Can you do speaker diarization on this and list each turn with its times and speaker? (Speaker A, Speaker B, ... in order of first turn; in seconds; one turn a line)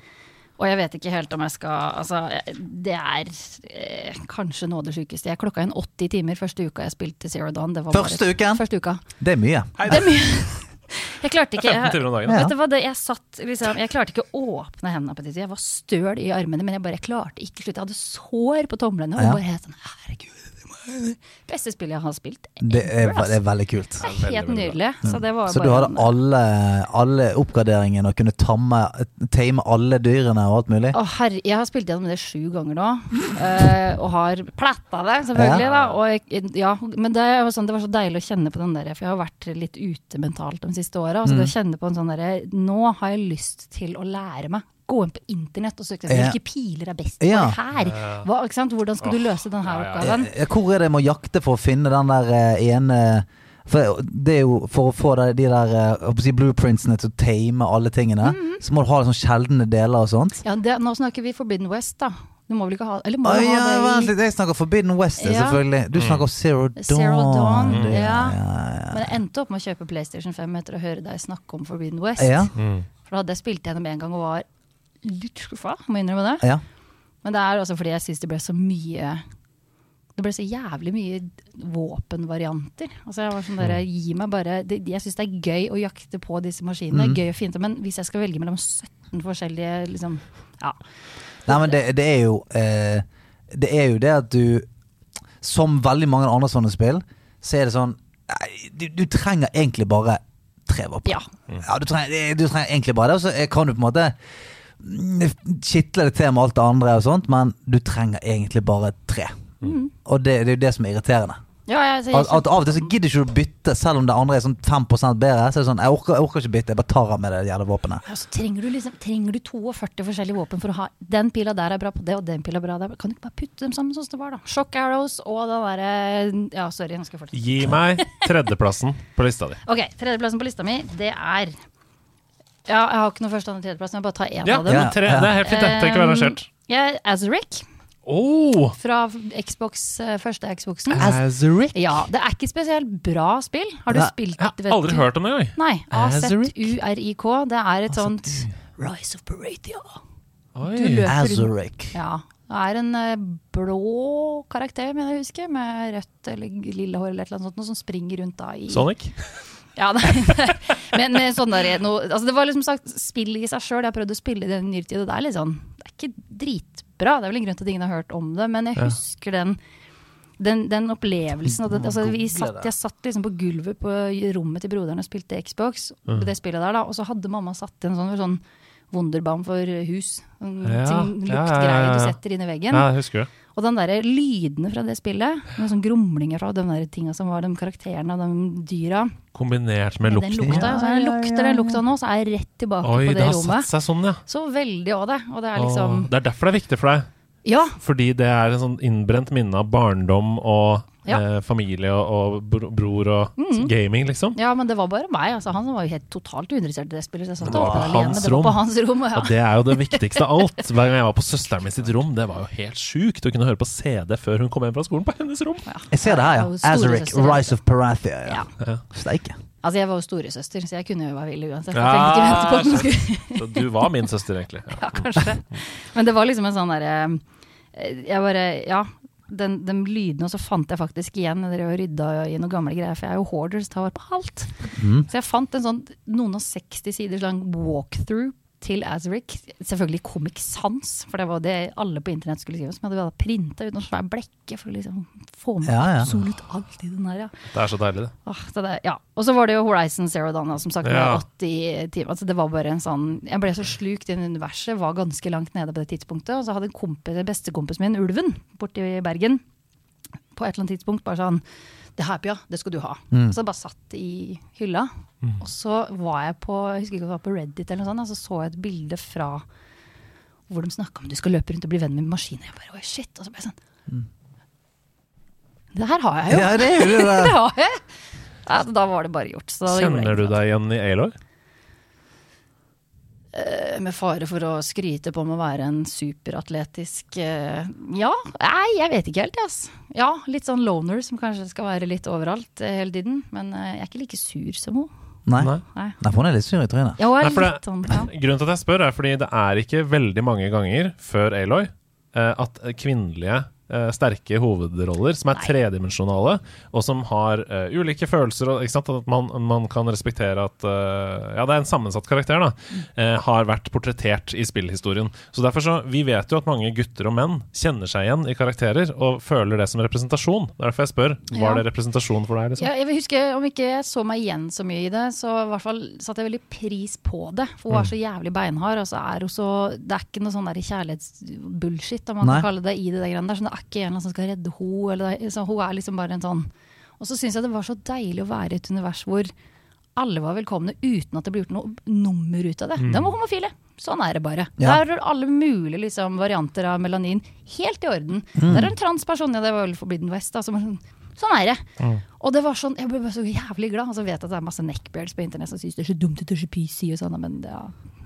Speaker A: 0.6-9.0
Speaker B: 7.9-10.0
Speaker C: 9.8-10.2
Speaker A: 9.9-23.4
Speaker C: 11.6-12.4
Speaker B: 22.6-24.0
Speaker A: 24.0-26.1
Speaker C: 24.0-24.8
Speaker B: 25.0-30.9
Speaker A: 30.9-50.3
Speaker B: 35.3-35.6
Speaker C: 35.5-36.0
Speaker B: 41.2-41.5
Speaker B: 46.1-46.4
Speaker B: 47.2-47.6
Speaker C: 47.8-48.3
Speaker C: 49.0-50.1
Speaker B: 50.0-60.4
Speaker A: 58.2-58.6
Speaker A: 60.4-64.1
Speaker B: 63.2-69.1
Speaker A: 65.2-65.6
Speaker C: 65.9-66.2
Speaker A: 66.8-74.5
Speaker C: 67.7-68.0
Speaker B: 72.2-72.5
Speaker C: 72.5-72.9
Speaker A: 75.0-76.5
Speaker A: 77.2-79.2
Speaker A: 80.2-90.8
Speaker B: 86.9-87.2
Speaker A: 91.4-91.8
Speaker B: 91.5-94.7
Speaker B: 95.4-104.1
Speaker B: 104.8-109.4
Speaker A: 109.6-109.9
Speaker B: 110.0-111.4
Speaker A: 111.7-112.9
Speaker B: 112.1-118.0
Speaker A: 118.1-128.1
Speaker C: 127.3-129.6
Speaker A: 129.7-131.6
Speaker A: 132.7-137.6
Speaker C: 134.4-136.5
Speaker B: 134.7-135.3
Speaker C: 138.1-138.8
Speaker A: 138.8-141.1
Speaker C: 140.9-142.0
Speaker A: 141.7-150.0
Speaker C: 144.4-146.7
Speaker B: 147.9-148.5
Speaker C: 150.6-151.1
Speaker A: 150.7-158.9
Speaker B: 151.1-151.9
Speaker C: 158.7-159.4
Speaker A: 159.8-169.6
Speaker A: 170.4-182.9
Speaker B: 171.4-172.7
Speaker C: 180.6-182.2
Speaker C: 182.7-183.3
Speaker A: 183.5-189.2
Speaker C: 189.3-190.8
Speaker A: 190.0-193.7
Speaker B: 190.4-191.8
Speaker C: 192.8-194.2
Speaker A: 194.2-196.1
Speaker C: 195.6-197.1
Speaker A: 197.4-197.8
Speaker C: 197.8-204.4
Speaker A: 203.4-203.7
Speaker A: 204.3-210.3
Speaker C: 207.4-208.6
Speaker B: 207.5-208.2
Speaker C: 209.1-215.6
Speaker A: 215.7-217.6
Speaker B: 215.9-219.4
Speaker A: 218.2-218.5
Speaker A: 219.6-223.7
Speaker C: 221.7-225.2
Speaker A: 224.8-227.2
Speaker A: 227.7-247.3
Speaker B: 234.8-235.1
Speaker B: 245.6-246.1
Speaker C: 247.5-248.1
Speaker A: 248.2-259.4
Speaker C: 250.8-251.2
Speaker A: 260.3-261.4
Speaker A: 262.0-264.9
Speaker A: 265.4-269.4
Speaker A: 270.5-273.6
Speaker A: 275.7-277.8
Speaker B: 276.3-277.3
Speaker A: 278.4-280.4
Speaker C: 279.7-281.1
Speaker A: 283.3-294.9
Speaker B: 295.3-297.0
Speaker C: 295.4-295.6
Speaker A: 297.0-298.1
Speaker C: 297.2-322.7
Speaker A: 321.3-321.6
Speaker A: 322.6-336.5
Speaker A: 337.0-339.3
Speaker A: 339.9-351.6
Speaker C: 342.8-343.1
Speaker B: 348.4-348.7
Speaker A: 352.1-357.7